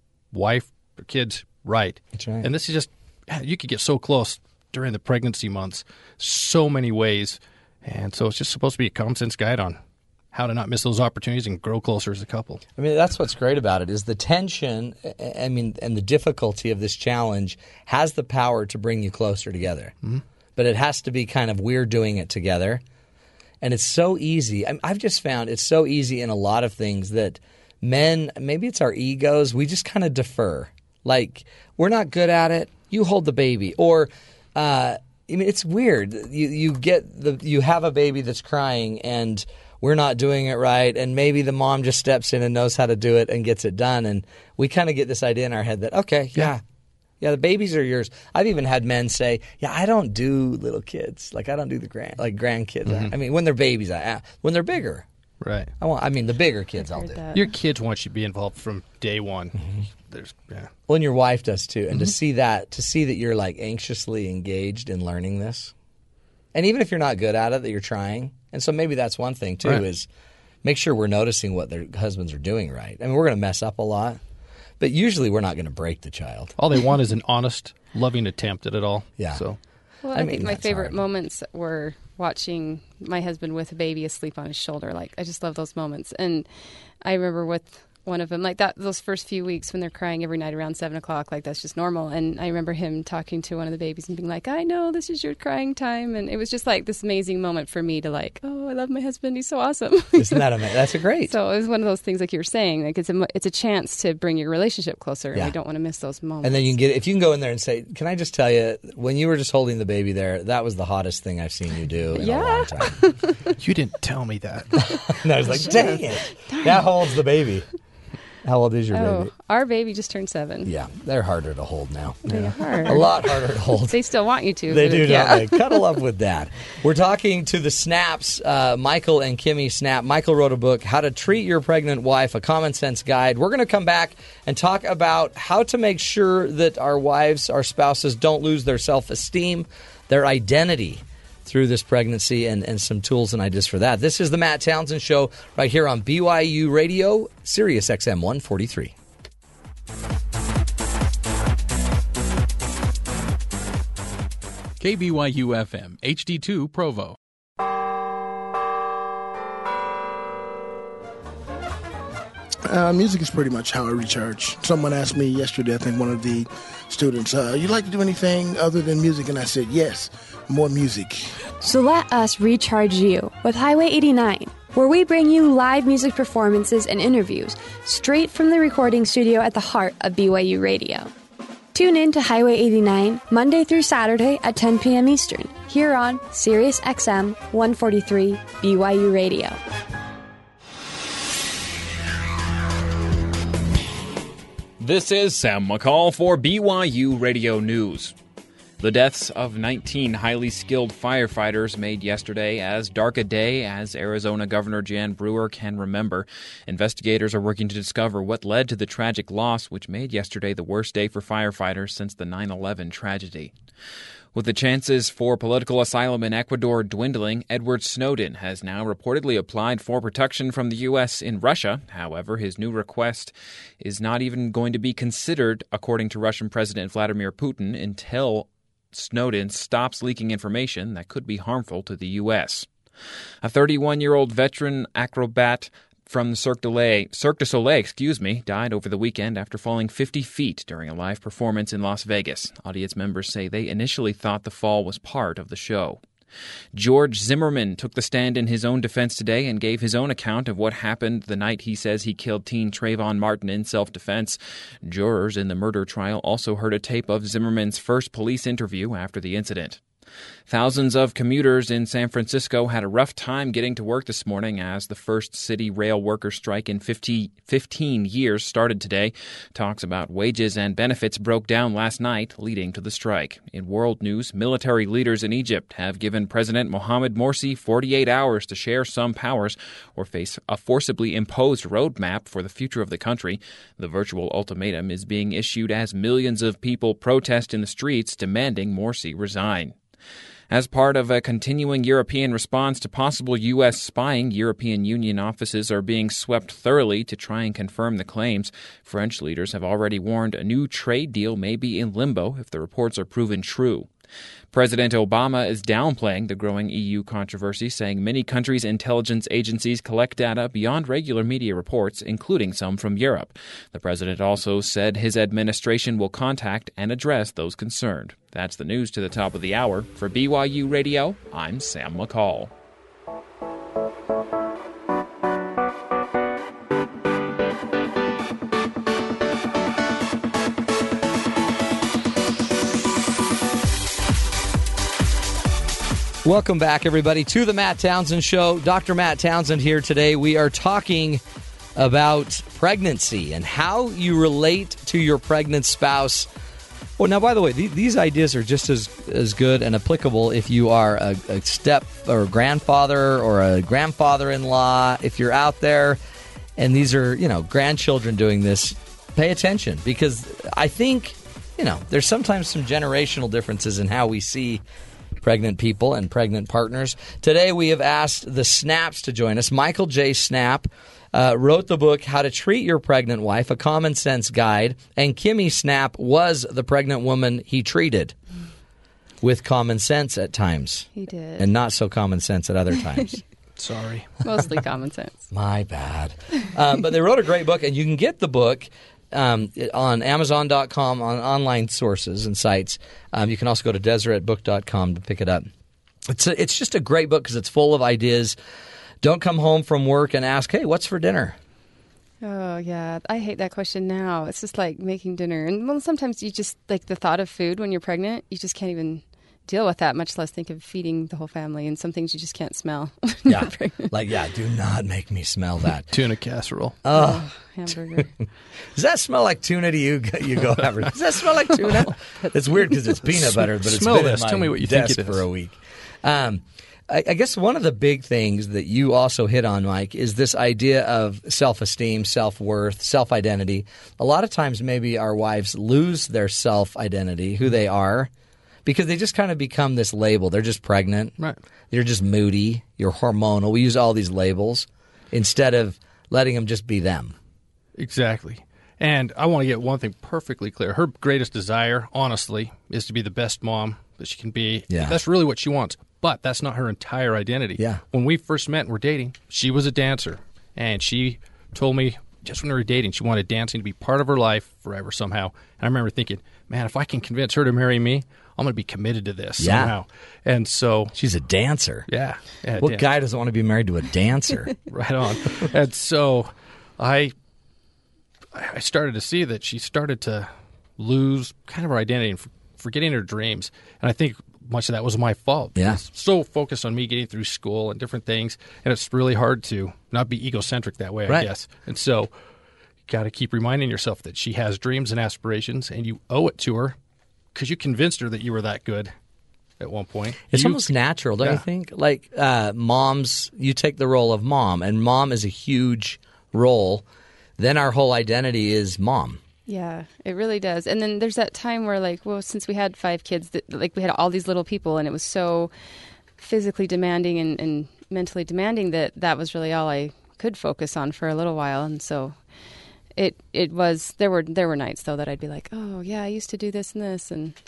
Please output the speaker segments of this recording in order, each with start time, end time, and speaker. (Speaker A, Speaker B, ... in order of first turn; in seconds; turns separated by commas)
Speaker A: 0.3-9.8, Speaker B: 2.1-2.5, Speaker A: 10.3-12.6, Speaker B: 12.8-19.9, Speaker B: 20.6-22.8, Speaker B: 23.6-46.6, Speaker B: 47.2-55.1, Speaker A: 52.9-53.1, Speaker A: 55.4-55.7, Speaker B: 55.8-57.2, Speaker C: 56.8-57.5, Speaker A: 57.3-60.7, Speaker B: 59.5-59.8, Speaker B: 60.9-65.7, Speaker B: 66.5-70.1, Speaker B: 70.6-74.2, Speaker B: 74.8-76.6, Speaker A: 76.6-79.6, Speaker B: 79.2-79.4, Speaker C: 80.0-86.5, Speaker B: 80.1-81.0, Speaker C: 87.0-100.5, Speaker B: 100.2-101.3, Speaker C: 101.3-106.8, Speaker B: 106.4-113.0, Speaker C: 112.2-113.5, Speaker A: 113.6-114.8, Speaker B: 114.8-117.7, Speaker C: 115.5-116.9, Speaker B: 118.4-119.3, Speaker C: 118.9-120.7, Speaker B: 120.7-124.0, Speaker A: 122.3-123.1, Speaker C: 122.3-123.1, Speaker C: 123.8-125.8, Speaker B: 124.7-148.9, Speaker A: 154.8-157.2, Speaker D: 162.7-171.4, Speaker E: 171.6-181.1, Speaker E: 181.7-189.6, Speaker F: 194.8-198.2, Speaker F: 198.8-213.6, Speaker F: 214.3-232.7, Speaker F: 233.4-246.0, Speaker F: 246.7-259.8, Speaker F: 260.5-289.8, Speaker F: 290.5-303.9, Speaker F: 304.5-322.5, Speaker B: 336.2-341.2, Speaker B: 341.8-346.3, Speaker B: 347.0-356.0, Speaker B: 356.6-364.6, Speaker B: 365.2-378.2, Speaker B: 379.2-383.2, Speaker C: 380.9-381.5, Speaker A: 383.6-384.1, Speaker C: 384.2-385.2, Speaker B: 385.3-395.5, Speaker B: 396.1-398.4, Speaker B: 399.0-401.4, Speaker C: 402.2-413.9, Speaker B: 413.3-415.9, Speaker A: 415.9-416.8, Speaker B: 416.8-417.3, Speaker C: 416.9-418.1, Speaker B: 418.7-438.1, Speaker C: 422.2-422.8, Speaker A: 423.1-425.2, Speaker B: 438.6-441.1, Speaker B: 441.7-447.1, Speaker A: 447.8-470.9, Speaker B: 454.7-455.0, Speaker B: 469.4-469.7, Speaker B: 470.9-471.9, Speaker A: 471.9-472.9, Speaker B: 472.6-474.5, Speaker A: 474.7-477.1, Speaker A: 478.3-492.1, Speaker B: 485.6-485.8, Speaker A: 492.9-496.8, Speaker A: 497.3-498.9, Speaker A: 499.6-501.4, Speaker B: 500.3-506.9, Speaker B: 507.4-509.2, Speaker C: 509.5-515.5, Speaker C: 516.2-522.2, Speaker C: 523.0-527.4